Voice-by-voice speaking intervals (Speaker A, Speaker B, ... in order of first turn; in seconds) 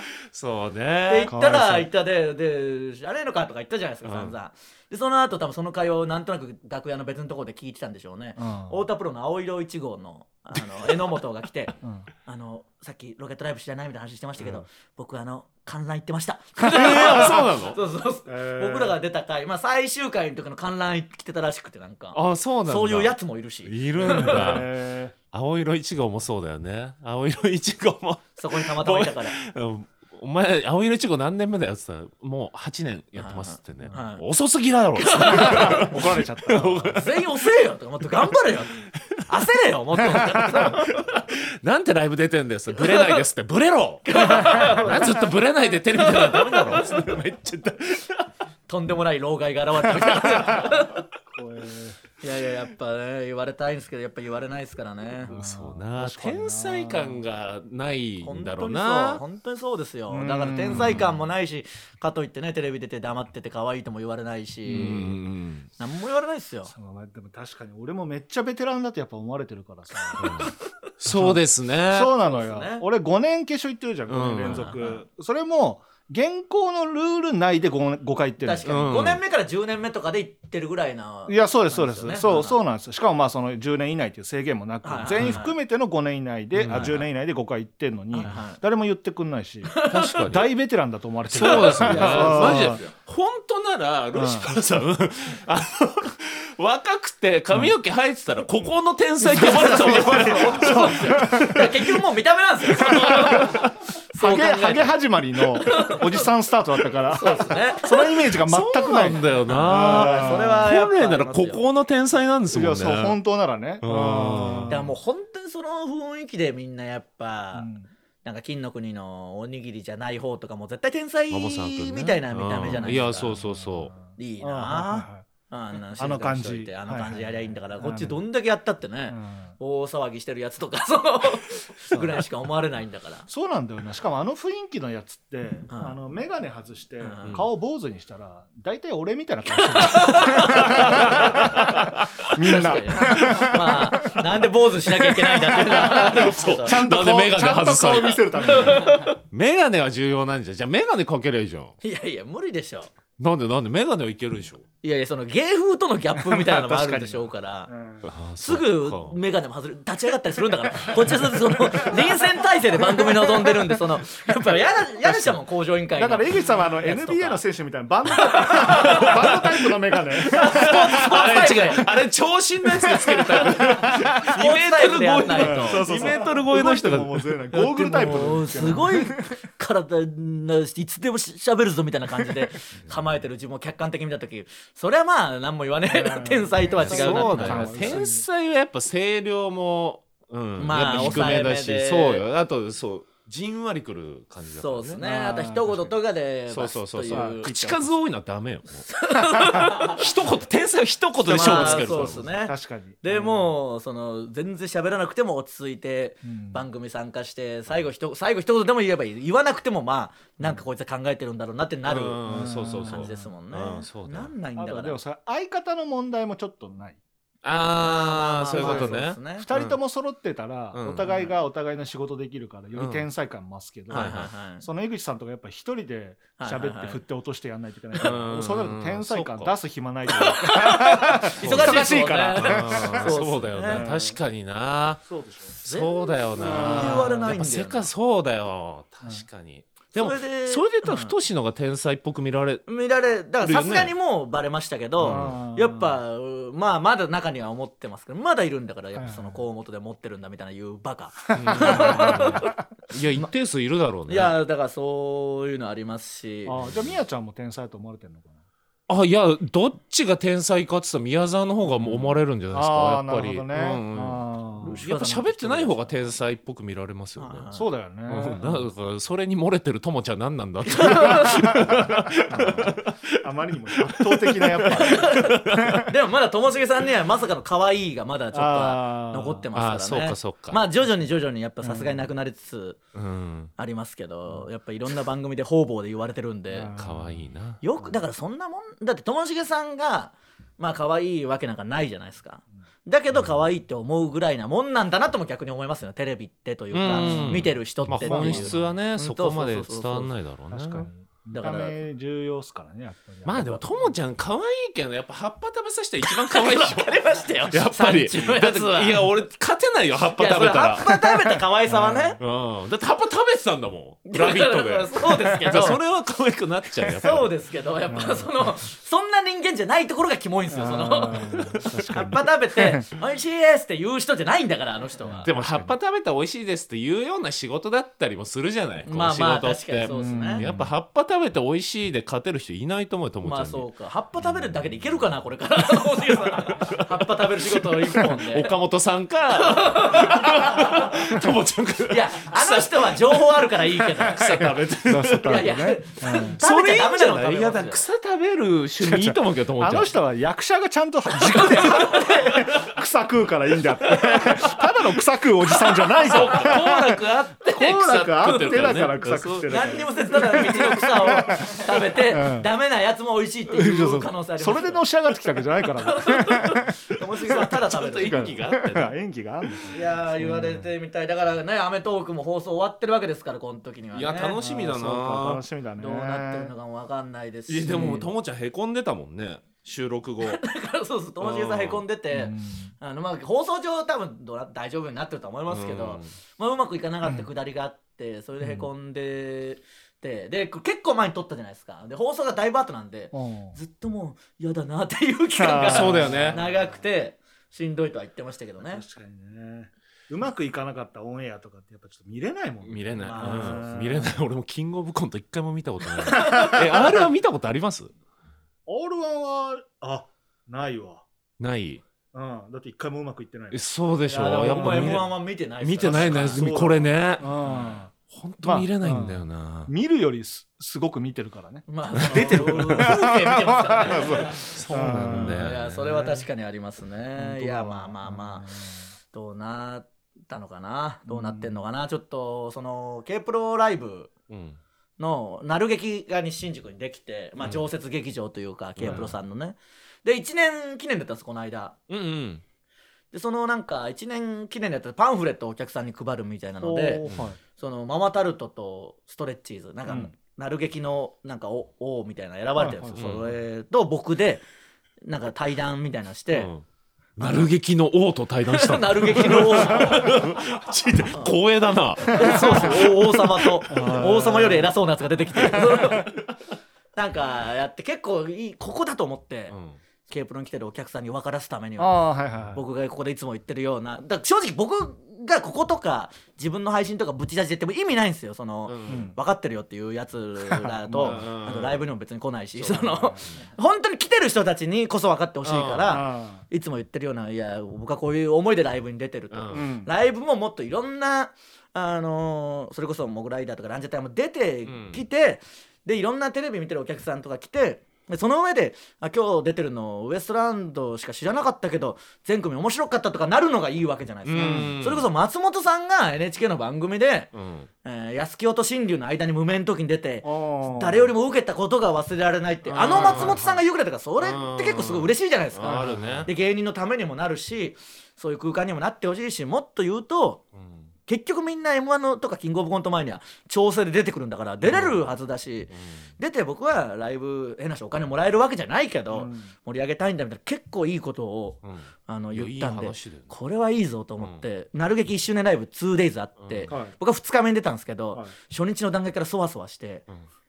Speaker A: 0.3-1.3, 4.0-4.3, 16.7-17.8, 22.1-24.7, 25.3-37.1, 40.5-48.3, 55.2-59.2, 60.7-61.1, 64.7-65.7, 70.2-72.1, 74.1-74.7, 78.6-79.2, 85.2-85.4, 86.5-87.0, 89.8-90.5, 91.3-101.3, 108.4-113.2, 113.8-114.8, 121.3-123.9, 140.2-142.3, 143.0-143.6, 145.5-151.8, 153.2-154.6, 158.0-159.2, 168.7-169.4, 170.3-178.9, 186.8-195.0, 196.5-198.9, 199.6-202.4, 211.8-214.3, 217.4-219.8, 220.7-221.1, 222.7-223.1, 223.9-224.3, 228.0-229.5, 231.4-235.0, 235.6-242.6, 243.4-243.9, 245.0-245.4, 251.3-254.3, 258.9-267.4, 268.1-273.2, 273.8-275.8, 279.5-280.6, 282.9-283.5, 286.7-287.6, 296.7-300.9, 303.2-311.4, 312.2-317.3, 325.2-333.6, 336.3-337.0, 337.6-345.5, 346.4-350.0, 356.0-359.6, 367.4-368.9, 373.9-375.4, 377.5-380.4, 381.2-381.8, 385.5-386.1, 395.6-396.4, 402.6-407.9, 411.4-411.8, 413.5-419.7, 421.9-423.0, 424.0-426.2, 434.3-434.6, 438.8-439.1, 441.9-442.4, 452.9-453.2, 456.3-456.6, 457.2-463.9, 465.4-466.2, 469.5-469.8, 478.6-479.1, 481.0-481.8, 482.6-483.4, 485.4-486.0, 489.3-489.7, 494.6-495.0, 504.2-505.1, 507.3-507.7, 512.7-513.6, 514.2-516.3, 520.6-520.9, 524.6-525.0, 525.7-526.1, 531.6-533.3, 536.4-536.7
Speaker B: 1.1-11.7, 12.2-24.6, 28.4-29.4, 33.2-34.2, 35.0-35.9, 36.9-38.8, 39.3-40.9, 42.7-43.2, 44.0-45.1, 45.9-47.0, 48.7-51.0, 52.2-55.3, 58.2-65.2, 65.8-66.7, 70.1-70.5, 72.2-72.8, 74.4-75.0, 78.4-82.6, 84.8-85.5, 86.7-87.0, 88.1-88.6, 89.7-90.2, 91.4-92.9, 99.2-105.0, 105.5-106.2, 107.1-108.2, 109.5-111.6, 114.7-117.7, 118.2-123.4, 124.1-133.2, 135.7-135.9, 137.0-137.4, 139.5-141.7, 142.2-146.8, 148.5-149.2, 151.8-152.9, 154.8-157.7, 158.4-167.4, 168.1-169.4, 170.2-171.8, 173.3-176.1, 177.9-188.0, 190.6-192.2, 194.6-197.8, 198.9-200.1, 201.2-215.0, 217.8-219.5, 221.0-221.3, 223.9-224.6, 226.4-227.0, 228.0-228.2, 230.1-233.9, 235.7-237.9, 239.9-241.1, 242.7-252.6, 254.1-256.6, 264.6-266.1, 267.2-267.7, 270.6-271.7, 274.6-282.8, 283.6-286.7, 287.6-300.1, 301.3-301.7, 306.0-309.1, 310.1-312.2, 314.1-315.8, 316.9-325.3, 328.9-330.4, 333.2-338.5, 339.3-340.9, 341.9-344.4, 345.2-347.8, 351.1-352.6, 353.8-354.6, 355.5-356.6, 359.5-364.8, 365.8-368.3, 369.7-374.4, 375.8-378.0, 380.2-398.8, 403.0-403.7, 406.1-406.9, 414.1-416.5, 421.7-428.5, 429.1-434.1, 435.0-441.8, 443.1-454.4, 455.0-456.5, 457.2-457.5, 458.5-460.2, 462.0-466.1, 466.9-469.5, 470.1-472.0, 472.5-507.3, 507.8-520.4, 521.1-540.0
Speaker C: 1.2-1.9, 8.4-8.8, 11.8-12.1, 18.2-19.0, 24.0-25.1, 35.3-37.0, 40.2-40.7, 44.3-45.1, 51.3-52.0, 55.2-57.2, 60.1-61.1, 64.7-65.0, 66.7-70.5, 71.1-78.7, 81.3-92.8, 94.1-94.5, 99.3-102.0, 102.7-110.7, 112.5-114.9, 117.5-117.9, 124.4-125.3, 126.0-128.2, 129.1-129.5, 131.9-132.2, 133.3-149.0, 156.2-158.1, 160.8-163.8, 165.0-165.4, 165.9-171.5, 172.9-174.2, 175.3-179.3, 185.8-188.2, 195.0-195.9, 197.1-197.8, 199.6-199.9, 201.2-203.5, 206.2-206.7, 212.2-213.3, 214.6-217.0, 218.6-234.2, 235.1-235.6, 236.4-237.3, 245.0-246.0, 248.9-249.4, 251.4-252.6, 256.4-258.4, 261.7-264.8, 267.5-268.7, 271.3-275.9, 278.3-279.5, 281.6-282.1, 286.5-287.2, 296.9-298.7, 300.5-303.9, 311.7-312.2, 315.3-315.7, 317.9-318.6, 320.5-322.9, 325.0-325.8, 329.9-330.7, 344.8-346.4, 348.8-362.5, 363.5-370.7, 374.4-376.5, 377.7-378.1, 382.1-382.7, 388.4-388.7, 393.1-393.6, 395.4-396.8, 398.6-404.1, 408.6-411.0, 412.1-413.6, 414.2-415.1, 415.8-417.9, 418.4-425.4, 427.1-428.8, 431.1-431.6, 438.8-439.1, 446.6-447.4, 452.6-453.1, 462.1-462.7, 463.7-464.7, 465.4-466.1, 471.8-472.6, 478.9-479.1, 480.5-481.2, 482.6-483.2, 485.8-486.4, 489.5-489.9, 504.3-504.8, 510.2-511.1, 512.8-513.4, 515.6-516.2, 529.1-529.5